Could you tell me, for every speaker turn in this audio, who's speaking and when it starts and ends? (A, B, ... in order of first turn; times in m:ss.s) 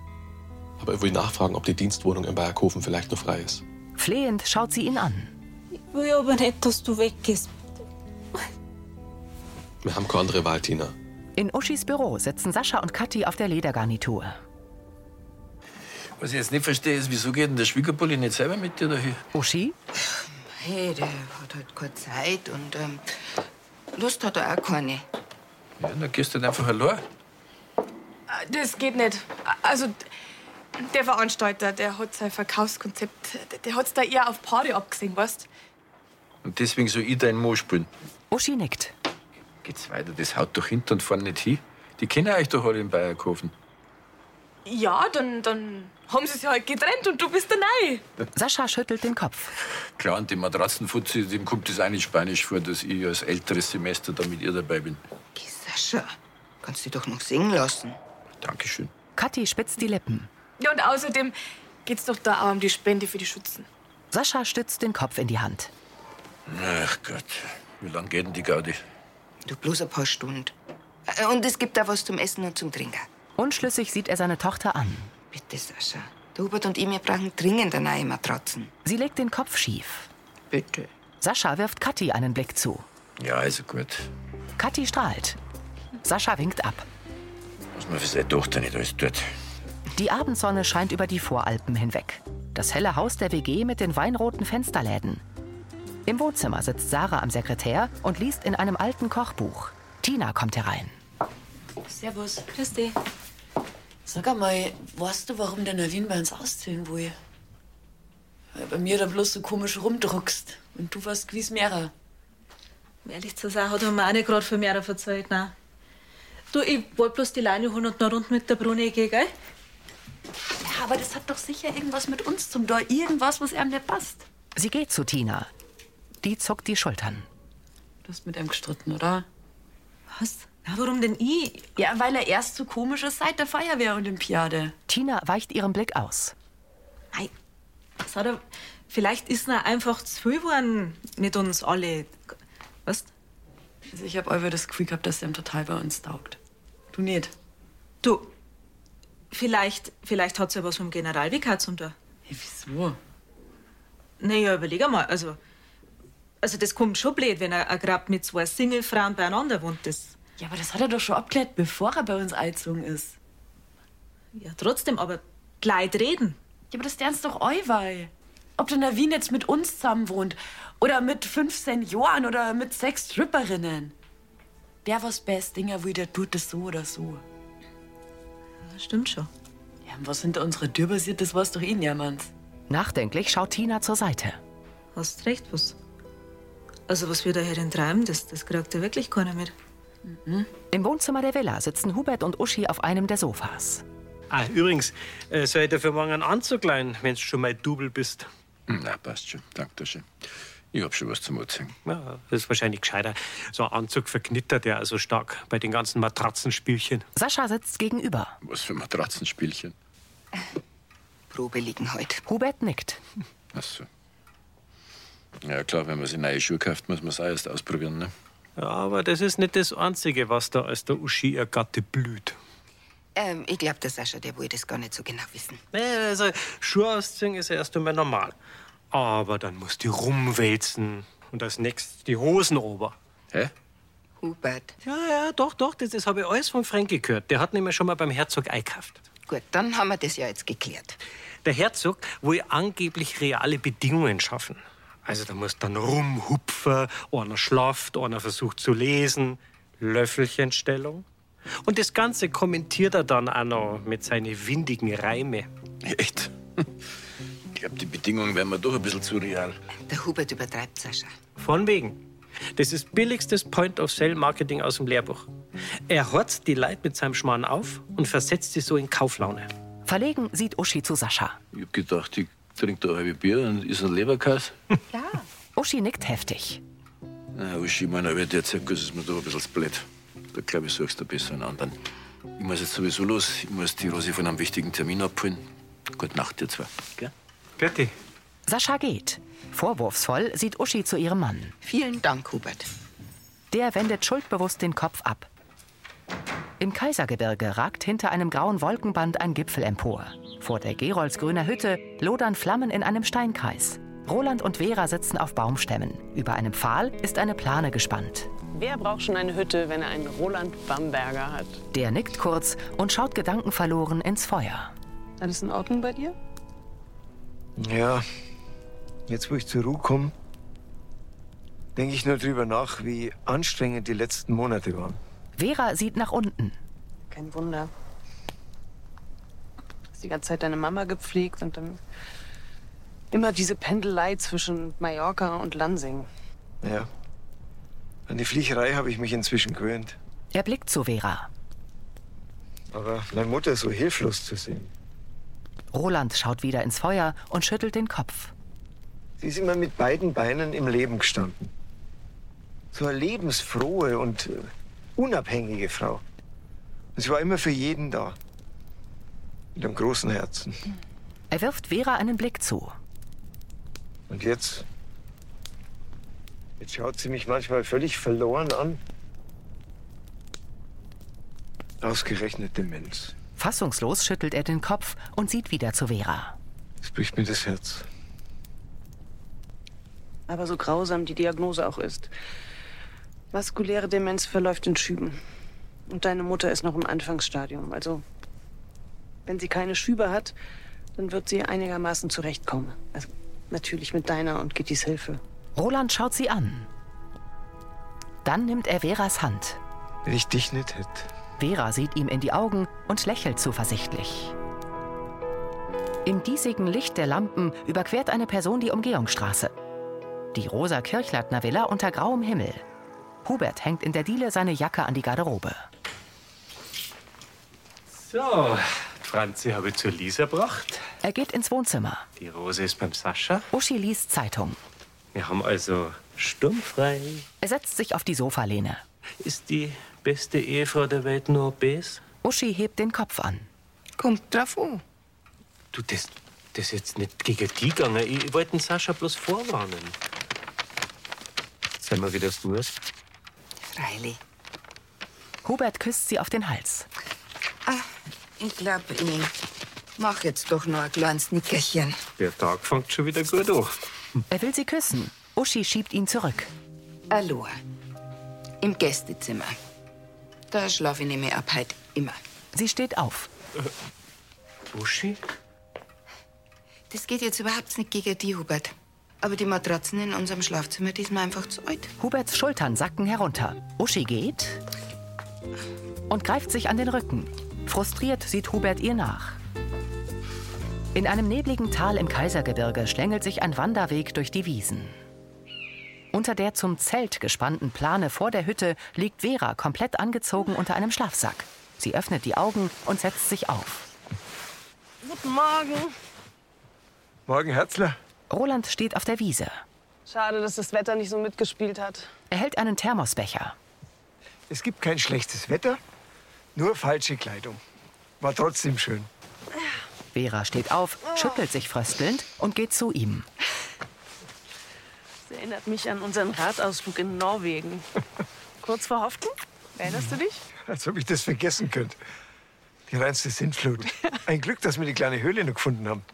0:00.8-0:03.6 A
0:04.0-0:05.3 B
0:05.7-0:07.6 C
0:09.8-0:10.9 A
0:11.4-0:14.4 B
0:16.2-0:19.2 D
0:19.3-0:19.8 B
0:20.6-0:23.0 E
0:24.0-0:25.0 E
0:25.8-0:27.0 D
0:28.3-0:30.0 F
0:30.8-0:35.5 F
0:36.4-0:37.9 D
0:38.3-0:38.9 B
0:39.6-0:43.5 D
0:44.7-0:48.0 F
0:48.4-0:49.5 B
0:50.0-0:55.0 D
0:55.4-0:56.1 E
0:56.6-0:58.0 E
0:58.4-0:58.9 D
0:59.2-1:00.3 B
1:00.6-1:01.4 F
1:01.9-1:03.7 F
1:04.1-1:05.7 B
1:06.5-1:08.8 D
1:09.5-1:10.5 E
1:11.1-1:13.1 E
1:13.4-1:15.1 B
1:15.3-1:18.7 E
1:18.8-1:20.1 B
1:20.5-1:20.9 E
1:21.2-1:22.8 B
1:23.2-1:24.1 D
1:24.6-1:25.4 B
1:26.0-1:26.9 B
1:27.8-1:29.3 D
1:30.0-1:35.2 B
1:36.1-1:41.0 B
1:41.9-1:42.4 G
1:42.5-1:43.0 C
1:44.0-1:47.2 G
1:48.5-1:51.9 G
1:53.0-1:55.5 C
1:56.5-1:59.3 C
2:00.6-2:04.3 G
2:04.6-2:05.5 B
2:06.2-2:07.3 B
2:08.0-2:09.3 G
2:10.1-2:11.7 C
2:11.8-2:14.7 G
2:14.9-2:16.4 B
2:18.0-2:22.2 C
2:23.9-2:26.4 G
2:26.9-2:27.3 G
2:28.0-2:28.3 C
2:29.3-2:32.0 C
2:32.3-2:33.0 G
2:34.2-2:35.4 C
2:36.4-2:40.2 C
2:40.4-2:43.2 G
2:44.3-2:46.4 C
2:46.7-2:53.9 G
2:54.8-2:57.2 G
2:58.6-2:59.3 C
2:59.8-3:02.3 G
3:02.7-3:04.4 B
3:05.0-3:05.8 C
3:06.9-3:09.5 C
3:10.1-3:10.5 G
3:10.7-3:13.8 B
3:14.3-3:18.3 H
3:18.7-3:20.1 D
3:20.7-3:21.8 D
3:21.8-3:27.0 H
3:27.2-3:28.4 B
3:28.4-3:29.7 D
3:31.3-3:32.2 E
3:32.3-3:33.0 B
3:33.5-3:33.9 D
3:35.4-3:38.1 D
3:38.6-3:42.4 H
3:43.2-3:45.6 E
3:45.7-3:48.4 H
3:48.9-3:53.0 H
3:54.2-3:54.8 E
3:54.8-3:59.0 H
3:59.3-4:01.0 E
4:01.4-4:11.0 H
4:11.6-4:15.5 H
4:15.8-4:16.6 D
4:17.5-4:19.6 D
4:19.9-4:21.1 E
4:21.4-4:22.0 H
4:22.6-4:25.3 H
4:25.9-4:29.5 H
4:29.9-4:31.4 B
4:31.5-4:34.6 D
4:35.6-4:36.6 B
4:37.3-4:41.8 D
4:42.4-4:47.1 D
4:47.6-4:47.9 H
4:48.5-4:51.6 B
4:51.6-4:52.7 E
4:53.5-4:55.3 B
4:56.6-5:08.3 B
5:08.6-5:11.6 I
5:11.7-5:14.7 B
5:15.2-5:16.2 I
5:17.6-5:18.0 J
5:19.1-5:20.1 J
5:21.8-5:25.0 J
5:25.4-5:26.6 B
5:27.1-5:27.7 I
5:30.0-5:31.8 I
5:33.1-5:36.1 I
5:36.6-5:36.9 J
5:38.1-5:40.0 J
5:40.3-5:41.3 B
5:42.7-5:44.7 J
5:45.7-5:48.3 B
5:49.2-5:51.5 J
5:52.7-5:56.0 J
5:57.0-5:58.2 J
5:59.6-6:00.6 J
6:01.3-6:02.8 B
6:04.1-6:04.6 J
6:06.6-6:08.8 J
6:11.8-6:13.1 J
6:13.4-6:16.4 B
6:16.8-6:17.9 J
6:20.3-6:22.1 I
6:23.3-6:25.2 I
6:25.9-6:28.0 I
6:29.3-6:30.4 I
6:31.0-6:35.2 I
6:35.6-6:36.7 B
6:38.2-6:39.6 B
6:40.0-6:41.1 J
6:41.4-6:44.4 B
6:46.0-6:49.5 B
6:50.3-6:52.6 B
6:53.2-6:55.6 B
6:57.9-7:00.8 H
7:01.0-7:02.1 B
7:02.2-7:03.5 H
7:03.5-7:04.6 B
7:05.1-7:07.2 H
7:07.4-7:08.8 B
7:09.2-7:12.0 H
7:12.2-7:13.5 B
7:14.0-7:14.8 E
7:15.7-7:20.0 H
7:21.8-7:22.7 H
7:23.7-7:24.2 E
7:25.4-7:26.9 B
7:28.4-7:29.3 E
7:30.0-7:32.0 E
7:32.2-7:33.7 H
7:34.3-7:36.5 B
7:37.1-7:37.6 E
7:38.6-7:39.6 E
7:40.5-7:42.2 E
7:42.5-7:43.3 B
7:44.7-7:45.2 H
7:46.9-7:51.9 E
7:52.0-7:54.6 B
7:56.1-7:59.4 B
8:01.0-8:05.0 B
8:06.1-8:13.9 B
8:15.0-8:15.9 I
8:17.3-8:18.0 J
8:18.3-8:19.6 B
8:20.1-8:22.1 I
8:22.3-8:23.6 B
8:24.5-8:25.8 J
8:26.6-8:27.6 J
8:28.2-8:29.1 J
8:30.1-8:33.3 B
8:35.3-8:37.8 I
8:38.6-8:40.4 I
8:40.7-8:42.0 J
8:42.9-8:46.0 J